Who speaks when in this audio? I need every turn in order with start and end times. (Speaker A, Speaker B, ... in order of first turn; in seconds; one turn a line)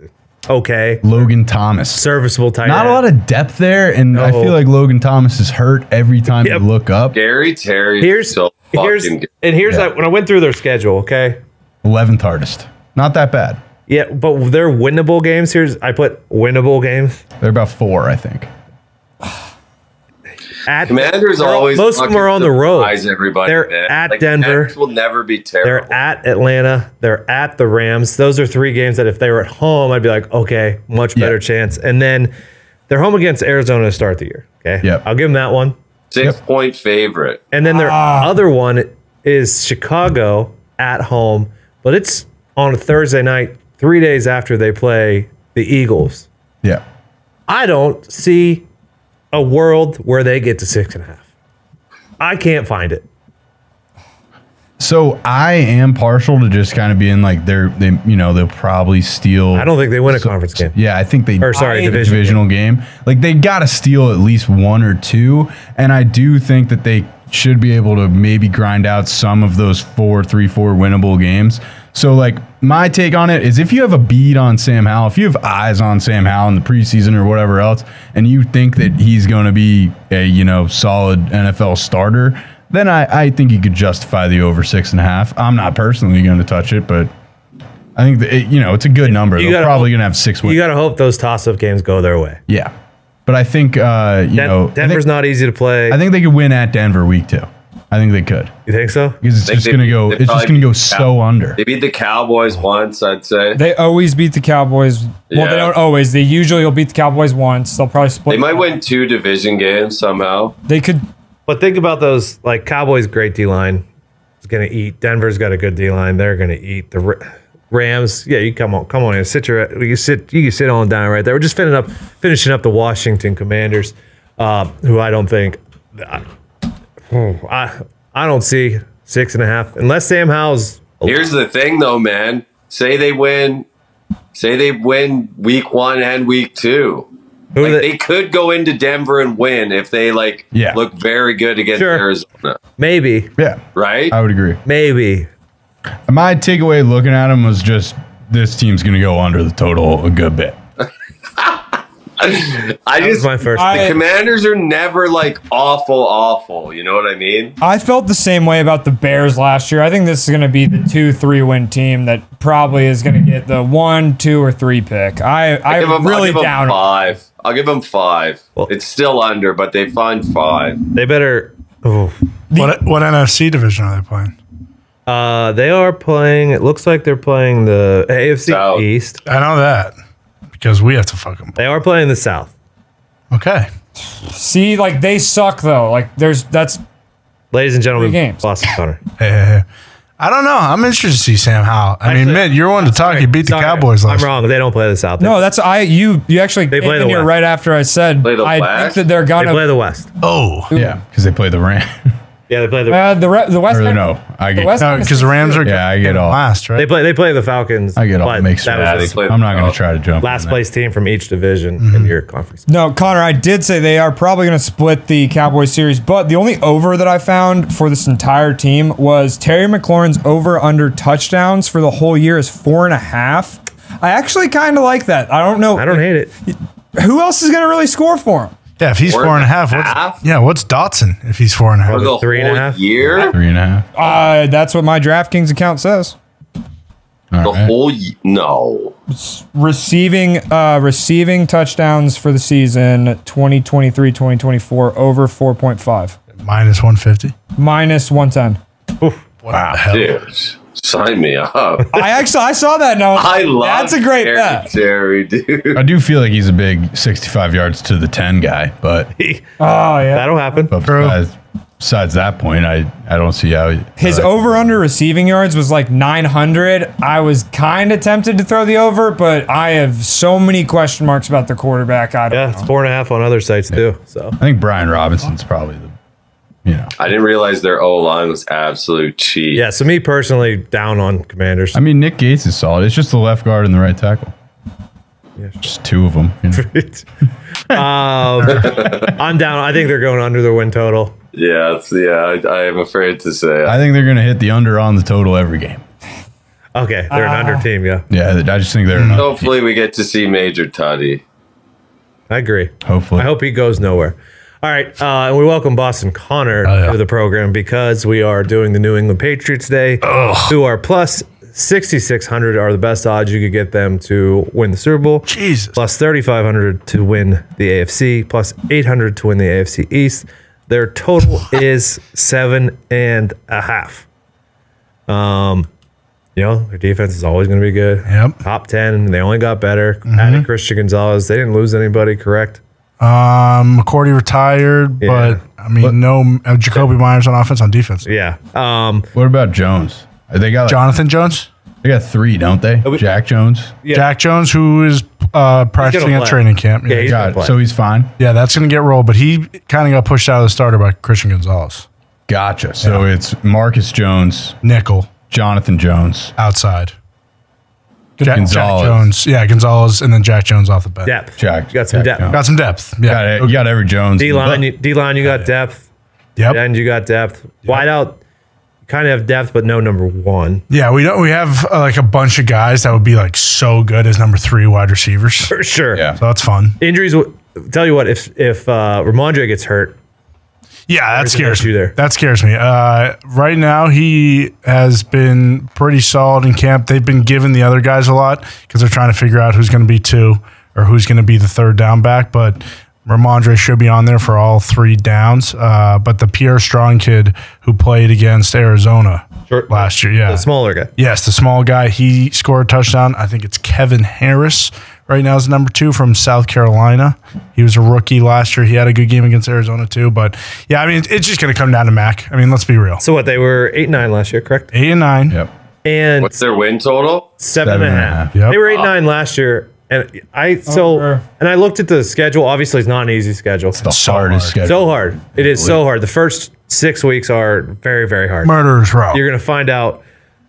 Speaker A: 0.5-1.3
Speaker B: 1.0-2.0
Speaker A: 1.9-3.0
Speaker B: 2.6-7.2
Speaker A: 4.1-4.5
Speaker C: 7.1-9.3
Speaker A: 8.0-11.4
Speaker B: 11.8-13.6
Speaker A: 13.9-17.2
Speaker B: 17.4-18.5
Speaker A: 20.6-24.7
Speaker C: 20.9-25.9
Speaker A: 25.6-32.3
Speaker A: 32.9-35.7
Speaker C: 36.1-37.4
Speaker A: 37.5-46.3
Speaker D: 37.7-38.3
Speaker A: 47.5-48.6
Speaker A: 49.3-51.2
Speaker A: 52.2-53.0
Speaker B: 54.8-87.1
Speaker A: 59.5-60.7
Speaker A: 61.4-62.4
Speaker D: 61.5-62.1
Speaker B: 88.0-90.6
Speaker A: 89.1-92.4
Speaker B: 92.5-92.7
Speaker B: 93.2-95.0
Speaker A: 94.3-96.0
Speaker B: 95.9-98.5
Speaker A: 98.7-99.2
Speaker B: 99.2-101.6
Speaker C: 99.5-103.6
Speaker D: 103.5-108.6
Speaker C: 105.3-105.7
Speaker C: 108.3-110.5
Speaker D: 110.7-111.0
Speaker A: 111.5-113.8
Speaker A: 114.4-126.2
Speaker A: 127.1-131.2
Speaker C: 131.0-133.7
Speaker C: 134.3-137.1
Speaker A: 137.5-137.9
Speaker C: 137.6-142.6
Speaker B: 140.5-140.8
Speaker A: 141.7-142.0
Speaker A: 142.8-143.3
Speaker B: 143.4-144.6
Speaker C: 143.7-144.2
Speaker A: 144.6-145.3
Speaker B: 146.1-150.6
Speaker C: 151.4-157.6
Speaker A: 152.9-154.0
Speaker D: 153.5-154.0
Speaker D: 157.6-166.8
Speaker C: 165.7-170.8
Speaker A: 170.9-172.2
Speaker D: 172.5-172.8
Speaker E: 172.5-174.3
Speaker A: 175.1-179.2
Speaker C: 178.4-178.8
Speaker E: 179.2-179.9
Speaker E: 180.6-181.5
Speaker A: 181.6-182.5
Speaker E: 183.3-183.7
Speaker D: 184.2-186.8
Speaker A: 187.5-189.0
Speaker D: 187.9-188.4
Speaker E: 189.2-189.6
Speaker E: 190.2-194.3
Speaker A: 192.0-195.5
Speaker D: 195.2-199.6
Speaker A: 196.7-197.3
Speaker C: 198.2-199.0
Speaker A: 199.4-200.1
Speaker E: 200.2-200.7
Speaker B: 200.7-202.1
Speaker A: 202.5-203.2
Speaker D: 202.9-205.7
Speaker B: 203.7-205.0
Speaker E: 204.8-206.9
Speaker B: 205.6-206.4
Speaker A: 206.8-209.2
Speaker B: 207.9-210.6
Speaker C: 208.7-209.8
Speaker A: 210.2-212.7
Speaker E: 211.8-212.1
Speaker D: 212.7-228.5
Speaker A: 225.8-226.3
Speaker E: 228.8-232.1
Speaker C: 229.0-230.2
Speaker A: 231.9-233.3
Speaker C: 231.9-233.3
Speaker B: 233.2-233.8
Speaker D: 233.9-236.1
Speaker B: 237.3-237.7
Speaker C: 237.4-238.9
Speaker D: 239.1-246.2
Speaker E: 246.4-247.3
Speaker D: 247.5-248.6
Speaker E: 249.4-250.1
Speaker B: 249.5-249.8
Speaker C: 249.9-251.9
Speaker D: 251.9-254.7
Speaker C: 253.1-255.8
Speaker B: 255.7-259.1
Speaker A: 259.2-260.7
Speaker D: 259.6-260.7
Speaker B: 260.7-264.8
Speaker E: 260.8-261.2
Speaker D: 264.0-272.7
Speaker A: 272.3-274.4
Speaker B: 274.4-275.9
Speaker B: 276.6-276.9
Speaker C: 277.0-279.6
Speaker A: 279.5-281.8
Speaker B: 281.7-284.3
Speaker A: 285.4-285.6
Speaker B: 285.6-286.6
Speaker A: 286.5-287.0
Speaker A: 287.7-291.1
Speaker B: 288.5-289.0
Speaker C: 288.5-289.1
Speaker C: 291.3-293.8
Speaker B: 293.6-295.8
Speaker A: 296.7-298.1
Speaker D: 297.1-297.6
Speaker B: 298.1-299.4
Speaker E: 298.9-299.3
Speaker C: 299.1-301.2
Speaker A: 302.3-324.0
Speaker B: 302.8-303.3
Speaker E: 306.6-306.9
Speaker E: 310.0-310.6
Speaker E: 315.3-315.8
Speaker A: 325.1-325.7
Speaker A: 326.4-332.6
Speaker E: 328.1-328.4
Speaker E: 330.1-330.4
Speaker E: 333.0-338.1
Speaker A: 335.0-335.4
Speaker A: 338.0-339.1
Speaker B: 339.1-340.8
Speaker E: 340.7-341.5
Speaker B: 341.8-343.7
Speaker A: 343.8-344.1
Speaker E: 343.9-347.2
Speaker A: 345.8-347.5
Speaker B: 347.1-348.1
Speaker E: 348.2-351.9
Speaker B: 352.3-354.6
Speaker E: 354.6-355.1
Speaker B: 355.3-356.3
Speaker E: 356.4-356.9
Speaker E: 358.2-361.1
Speaker B: 358.2-359.1
Speaker A: 361.0-362.4
Speaker B: 361.4-362.4
Speaker E: 362.3-363.5
Speaker B: 363.0-364.6
Speaker A: 364.2-365.8
Speaker A: 366.5-368.2
Speaker A: 368.9-370.6
Speaker E: 370.7-375.5
Speaker A: 375.5-376.0
Speaker B: 375.9-376.2
Speaker E: 376.2-376.8
Speaker A: 376.8-379.9
Speaker E: 380.9-400.4
Speaker A: 381.1-381.9
Speaker A: 399.5-400.9
Speaker E: 401.0-413.0
Speaker A: 413.0-414.7
Speaker E: 414.7-415.4
Speaker A: 415.8-416.3
Speaker C: 416.2-417.3
Speaker A: 417.4-423.8
Speaker B: 417.6-418.3
Speaker E: 418.3-418.6
Speaker D: 420.7-421.2
Speaker E: 423.8-424.6
Speaker B: 423.8-425.8
Speaker A: 424.6-428.6
Speaker E: 428.4-429.2
Speaker A: 429.1-430.0